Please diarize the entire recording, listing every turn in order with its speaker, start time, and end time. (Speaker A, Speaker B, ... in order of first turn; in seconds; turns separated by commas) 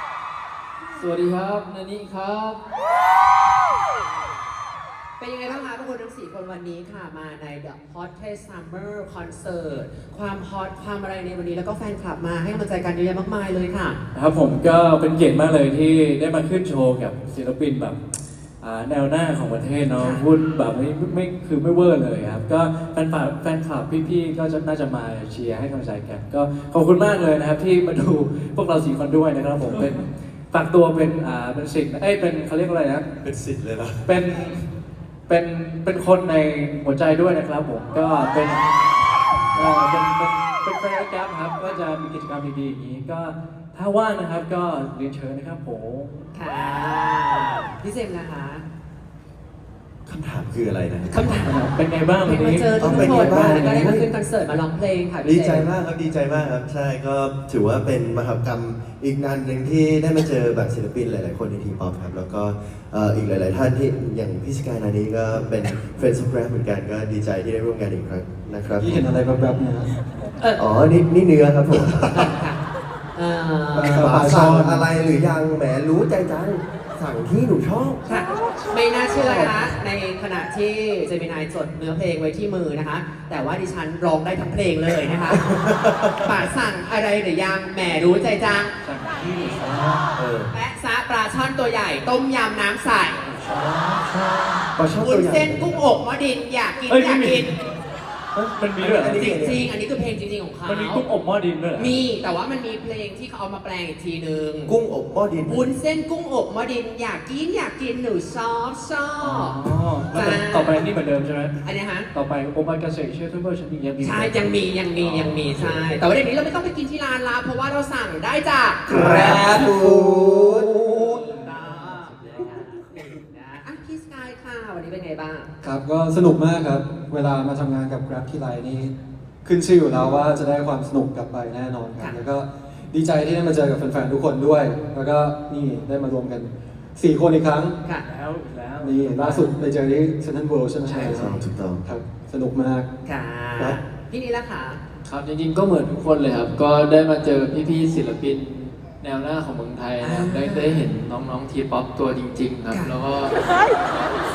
Speaker A: 0.9-2.6, Speaker B: 5.2-14.0, Speaker C: 14.1-18.0, Speaker C: 18.6-33.1, Speaker B: 20.0-20.2, Speaker D: 33.2-34.1, Speaker C: 34.0-34.7, Speaker C: 35.3-38.7, Speaker C: 39.5-46.2, Speaker B: 46.3-48.6, Speaker D: 50.0-51.1, Speaker B: 51.0-51.6, Speaker C: 51.4-54.0, Speaker B: 52.2-55.7, Speaker D: 52.8-54.0, Speaker D: 55.2-69.1, Speaker E: 68.8-69.9, Speaker B: 70.4-70.6, Speaker D: 70.6-72.2, Speaker B: 72.1-72.6, Speaker B: 73.1-74.2, Speaker E: 73.7-74.8, Speaker D: 73.8-78.1, Speaker B: 78.0-85.4, Speaker C: 79.2-79.5, Speaker D: 85.3-86.3, Speaker B: 86.2-88.7, Speaker C: 88.8-90.1, Speaker D: 90.2-90.5, Speaker B: 90.5-93.2, Speaker C: 93.2-94.8, Speaker D: 94.7-95.8, Speaker B: 95.0-97.5, Speaker C: 96.9-97.5, Speaker C: 98.3-99.3, Speaker D: 98.8-99.6, Speaker B: 99.1-101.0, Speaker C: 100.6-102.0, Speaker B: 101.7-104.7, Speaker D: 104.7-105.7, Speaker B: 105.5-110.9, Speaker C: 109.2-111.6, Speaker B: 111.6-112.1, Speaker C: 112.1-114.6, Speaker B: 114.0-119.7, Speaker A: 115.0-115.2, Speaker E: 118.9-121.5, Speaker D: 118.9-120.8, Speaker B: 121.2-125.5, Speaker A: 122.0-122.6, Speaker E: 125.6-137.8, Speaker C: 138.0-139.5, Speaker E: 138.8-142.9, Speaker D: 140.9-141.8, Speaker B: 143.0-144.8, Speaker A: 145.0-153.3, Speaker B: 150.0-150.8